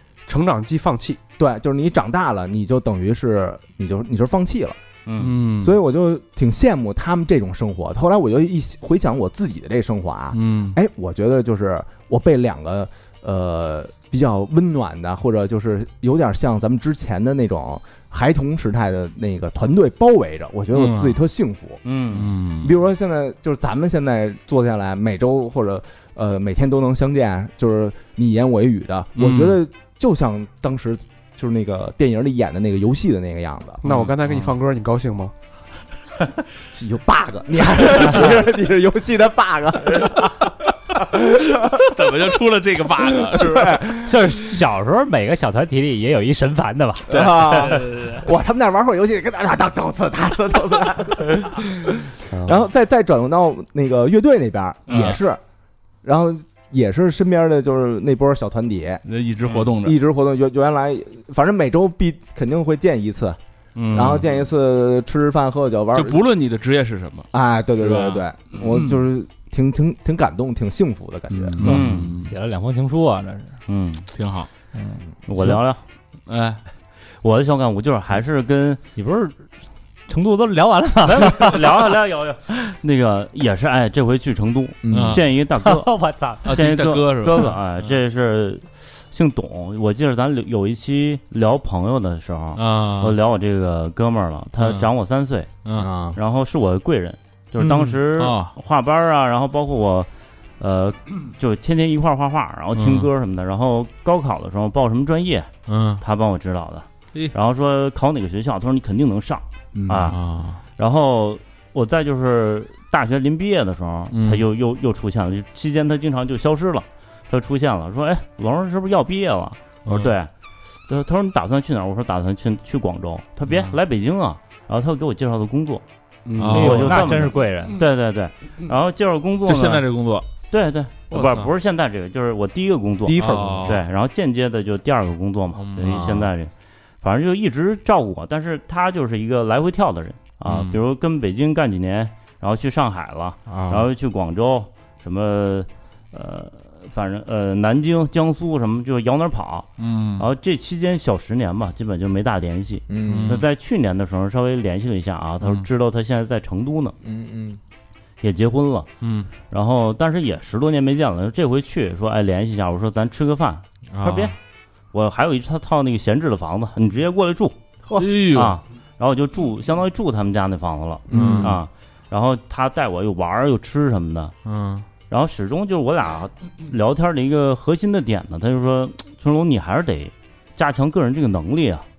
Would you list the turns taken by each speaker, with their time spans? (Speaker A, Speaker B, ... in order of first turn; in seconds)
Speaker A: 0.3-1.2, 33.8-35.3, 52.3-52.6, 109.8-110.1, 126.2-127.0, 133.1-133.7
Speaker B: 1.4-4.8, 5.6-21.8, 22.6-33.8, 36.7-42.1, 43.2-43.9, 47.1-51.9, 52.4-55.4, 56.0-59.0, 59.6-63.4, 63.9-66.2, 67.3-71.6, 84.8-85.2, 95.8-96.2, 152.9-153.4, 157.0-157.6, 171.1-171.6
Speaker C: 5.0-5.4, 21.8-22.3, 71.6-72.1, 73.7-74.0, 75.3-75.8, 77.2-78.8, 81.0-85.9, 86.5-95.6, 96.1-105.5, 106.0-110.2, 110.8-120.3, 120.9-125.8, 126.5-129.8, 130.5-136.5, 137.0-156.9, 158.2-158.9, 159.5-164.3, 164.9-167.6, 168.3-174.3, 175.1-181.8
Speaker D: 5.2-5.8, 10.3-10.8, 20.7-21.2, 22.1-22.8, 29.1-29.6, 33.9-34.5, 41.7-43.9, 47.1-48.3, 54.9-55.2, 59.0-60.0, 63.8-64.3, 65.9-69.0, 71.3-72.3, 74.1-74.5, 76.2-76.6, 84.9-85.2, 86.4-88.0, 92.5-93.2, 94.6-94.9, 97.6-98.5, 102.7-103.1, 105.7-106.0, 110.0-110.6, 114.1-114.4, 119.8-120.1, 123.5-123.8, 126.4-127.1, 129.4-130.2, 131.1-131.5, 133.2-133.8, 135.5-136.3, 140.5-140.8, 143.5-143.9, 149.8-150.3, 153.1-153.4, 159.0-159.3, 163.9-164.3, 167.9-168.6, 171.1-171.6, 174.4-174.8
Speaker E: 44.0-47.6, 71.6-73.5, 74.7-75.0, 79.0-79.4, 80.1-81.9, 85.5-86.5, 126.5-127.8